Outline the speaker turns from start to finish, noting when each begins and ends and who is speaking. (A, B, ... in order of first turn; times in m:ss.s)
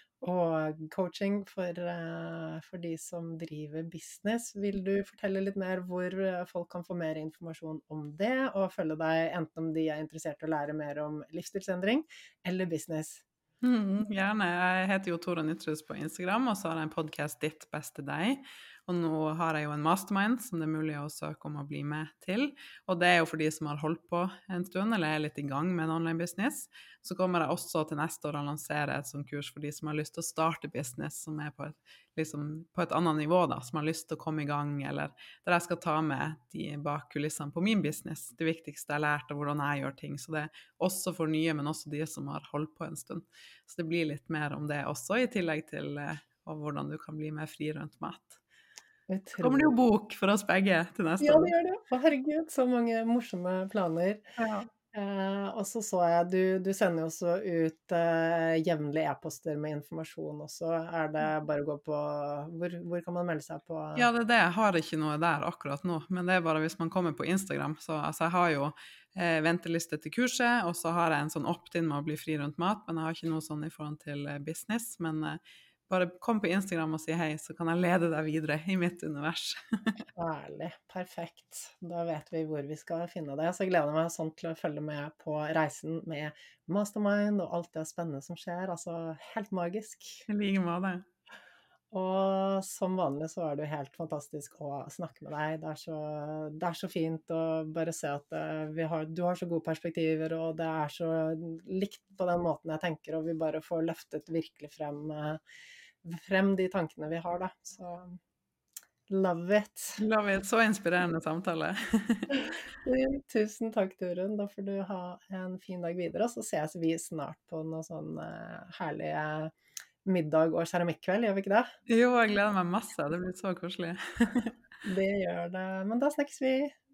0:00.2-0:13.2 A
0:13.6-0:48.4 B
0:49.1-0:49.7 A
0:49.4-0:51.5 B
0:51.2-0:54.2 A
0:54.4-0:54.7 B
0:54.9-1:04.1 A
1:04.0-1:19.9 B
1:20.2-1:30.3 A
1:30.3-1:31.0 B
1:31.9-1:45.4 A
1:46.0-1:48.2 A
1:49.1-1:50.0 A
1:50.0-1:52.5 B
1:52.3-1:59.5 A
2:00.0-2:01.7 A
2:01.9-2:04.6 B
2:04.8-2:06.7 A